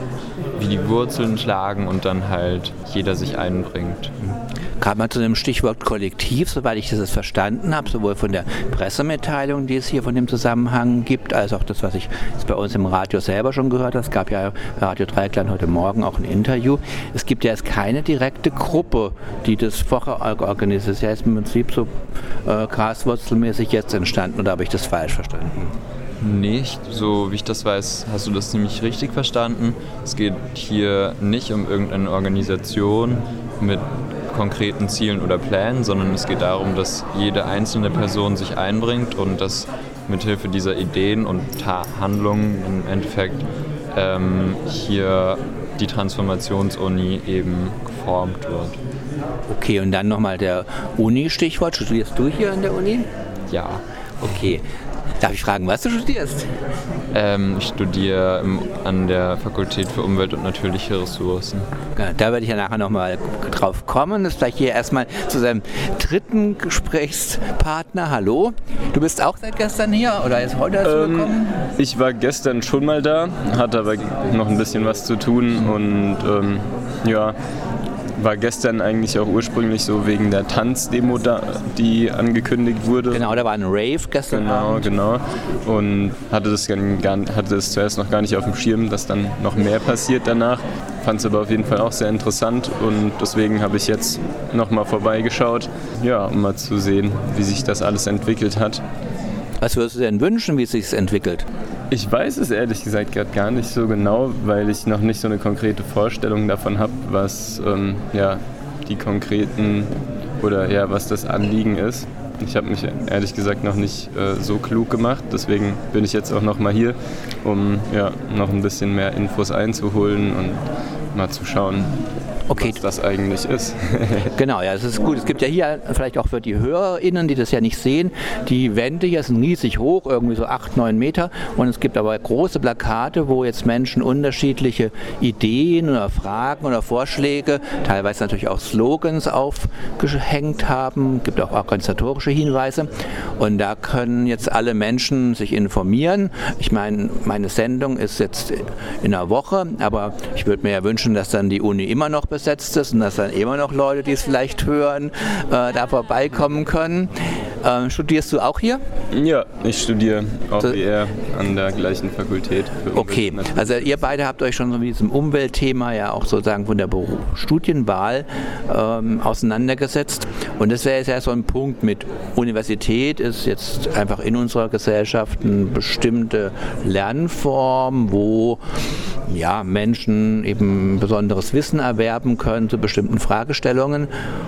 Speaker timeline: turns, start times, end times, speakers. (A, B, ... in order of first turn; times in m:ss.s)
0:00.6-0:04.1 A
0:04.3-0:25.7 B
0:26.2-0:48.8 A
0:49.5-0:53.1 B
0:53.5-0:53.8 A
0:54.2-0:54.6 B
0:55.2-0:56.5 B
0:57.1-1:01.6 A
1:01.9-1:11.6 B
1:10.8-1:17.4 C
1:18.2-1:23.2 C
1:23.1-1:24.9 B
1:24.3-1:38.8 C
1:39.6-1:41.5 B
1:41.9-2:01.9 C
2:02.5-2:02.8 B
2:02.5-2:04.3 C
2:04.4-2:38.8 B
2:39.1-2:43.6 C
2:42.9-2:58.6 B
2:59.3-3:04.1 B